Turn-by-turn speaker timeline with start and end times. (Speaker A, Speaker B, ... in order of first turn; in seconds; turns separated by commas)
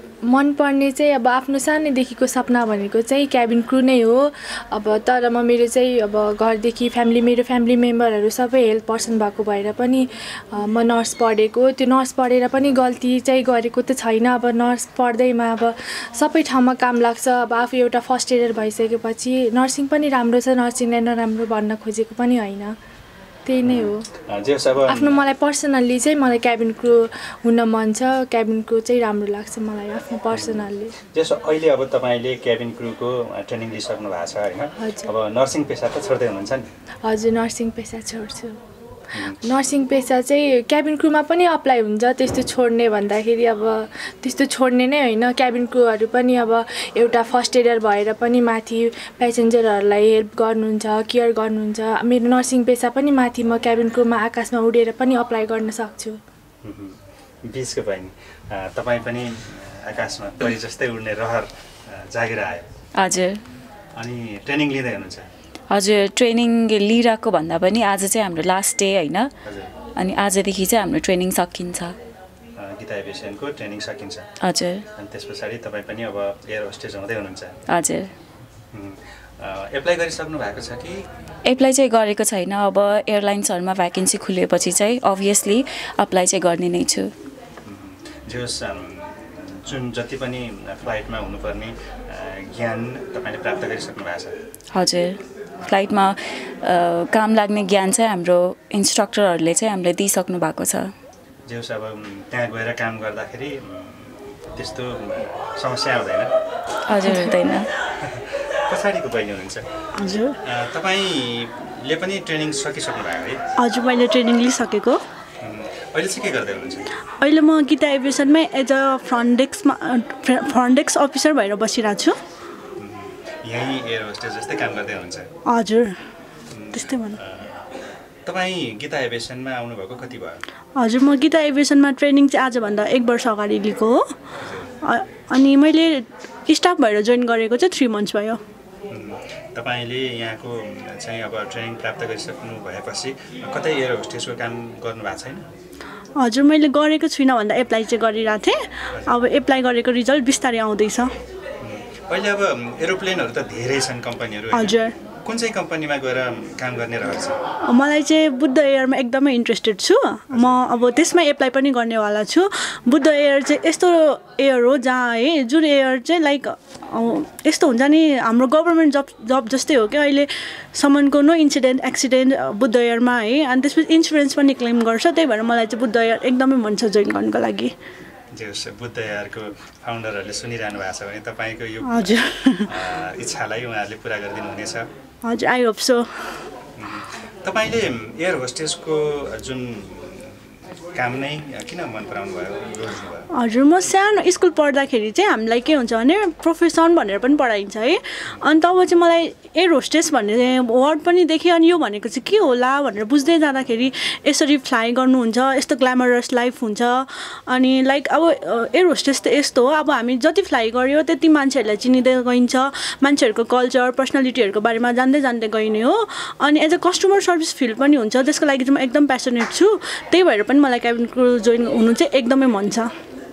Speaker A: 0.3-22.7, Speaker A: 23.4-24.0, Speaker B: 23.6-25.2, Speaker A: 24.9-30.9, Speaker B: 30.3-30.6, Speaker B: 31.1-36.6, Speaker A: 34.8-35.1, Speaker A: 37.0-38.5, Speaker B: 39.1-39.4, Speaker A: 39.4-56.2, Speaker B: 56.6-62.6, Speaker C: 63.0-63.4, Speaker B: 64.0-65.3, Speaker C: 65.7-69.3, Speaker C: 70.0-71.9, Speaker B: 72.6-74.3, Speaker C: 74.4-74.8, Speaker B: 75.0-77.5, Speaker C: 77.7-78.1, Speaker B: 78.7-81.0, Speaker C: 81.4-87.1, Speaker B: 87.6-94.3, Speaker C: 94.7-100.9, Speaker B: 101.5-106.3, Speaker C: 106.9-107.7, Speaker B: 108.0-109.7, Speaker D: 110.0-110.3, Speaker B: 110.4-113.4, Speaker D: 113.6-115.0, Speaker B: 115.4-116.9, Speaker D: 117.2-122.2, Speaker B: 122.8-125.3, Speaker D: 125.5-126.0, Speaker B: 126.5-127.6, Speaker D: 126.7-127.2, Speaker B: 128.2-130.4, Speaker D: 130.8-134.1, Speaker B: 134.4-134.7, Speaker D: 134.8-138.4, Speaker B: 138.9-145.4, Speaker D: 146.2-151.1, Speaker B: 148.9-149.3, Speaker B: 151.6-157.4, Speaker D: 154.5-154.9, Speaker D: 157.7-177.7, Speaker B: 160.3-160.8, Speaker B: 178.3-184.9, Speaker D: 181.9-182.7, Speaker D: 185.2-186.5, Speaker B: 186.8-190.4, Speaker B: 190.9-193.3, Speaker D: 193.3-222.9